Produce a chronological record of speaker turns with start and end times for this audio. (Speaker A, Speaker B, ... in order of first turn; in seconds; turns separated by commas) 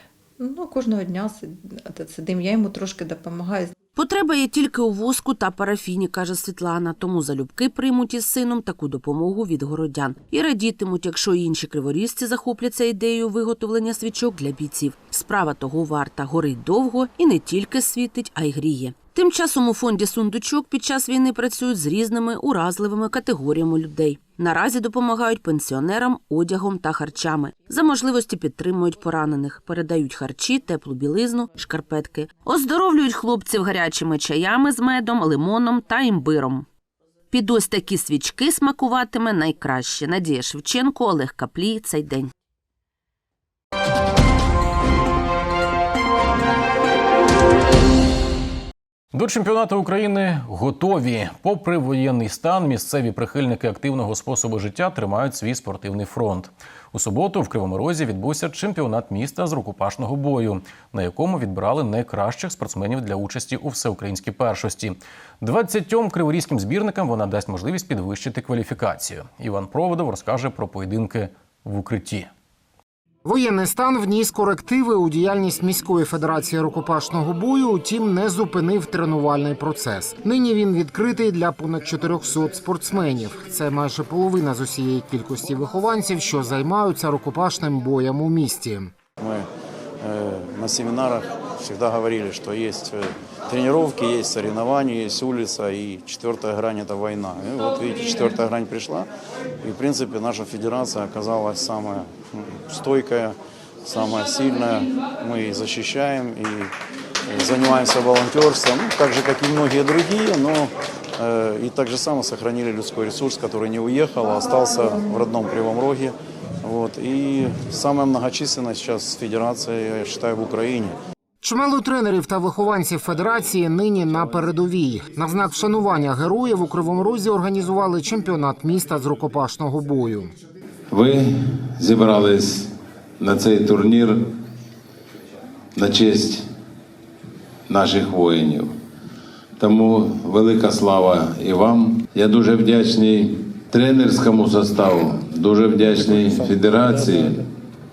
Speaker A: 0.4-3.7, Speaker B: 4.0-36.6, Speaker B: 37.3-42.3, Speaker C: 49.1-72.3, Speaker D: 73.2-88.9, Speaker E: 89.2-89.5, Speaker E: 90.0-99.1, Speaker E: 99.6-106.7, Speaker E: 107.3-121.0, Speaker D: 121.4-130.3, Speaker F: 130.9-134.3, Speaker F: 135.7-136.5, Speaker F: 137.7-138.7, Speaker F: 139.6-147.4